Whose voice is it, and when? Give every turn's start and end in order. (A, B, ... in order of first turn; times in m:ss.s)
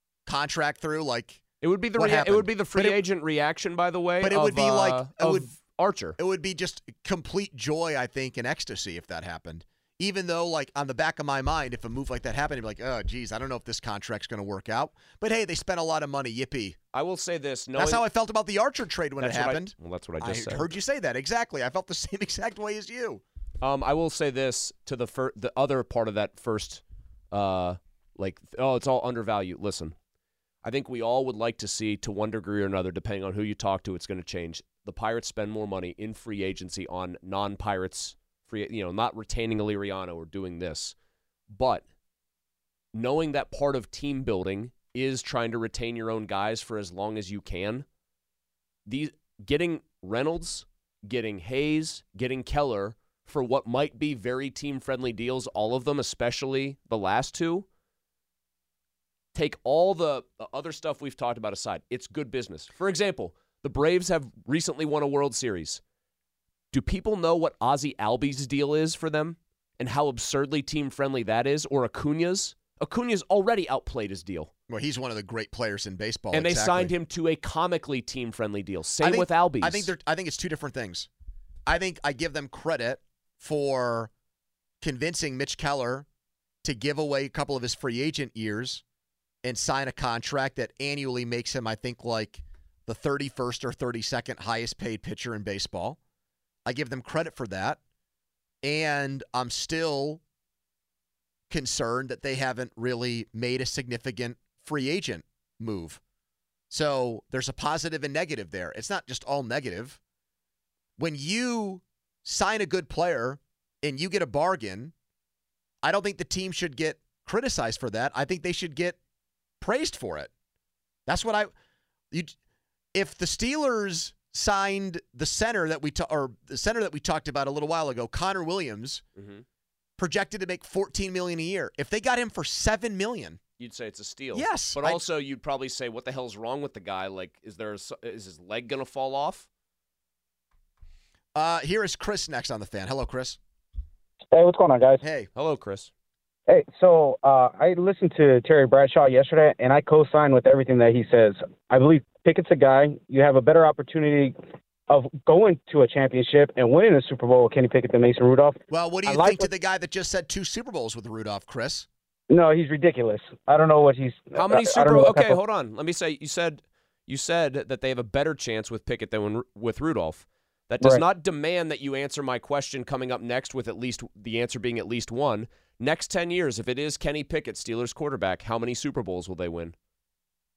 0:00.3-0:01.4 A
0:01.6-0:06.2 B
0:02.0-0:03.0 A
0:04.2-0:05.5 A
0:06.2-0:16.8 A
0:16.9-0:18.0 B
0:17.8-0:23.2 A
0:19.2-0:20.7 B
0:23.6-0:30.0 B
0:30.6-0:41.0 B
0:41.5-0:41.8 B
0:42.9-0:47.9 B
0:48.9-0:57.7 B
0:59.3-1:05.8 B
1:06.7-1:14.5 B
1:14.7-1:16.9 A
1:16.3-1:19.9 B
1:19.0-1:21.1 A
1:21.7-1:24.1 A
1:24.8-1:26.1 A
1:26.6-1:28.8 A
1:29.4-1:36.0 A
1:36.6-1:37.8 A
1:38.6-1:40.2 A
1:41.5-1:46.0 A
1:46.7-1:50.0 A
1:51.0-1:54.9 A
1:55.8-1:59.0 A
1:59.6-2:00.3 A
2:01.1-2:01.5 A
2:02.9-2:09.0 A
2:09.2-2:09.4 B
2:10.0-2:13.4 A
2:13.6-2:19.5 B
2:14.3-2:15.1 A
2:21.4-2:23.4 A
2:24.3-2:25.0 C
2:25.0-2:25.3 A
2:25.4-2:25.9 B
2:26.5-2:34.4 C
2:34.9-2:39.5 C
2:38.7-2:41.9 A
2:42.3-2:45.4 C
2:44.4-2:59.8 B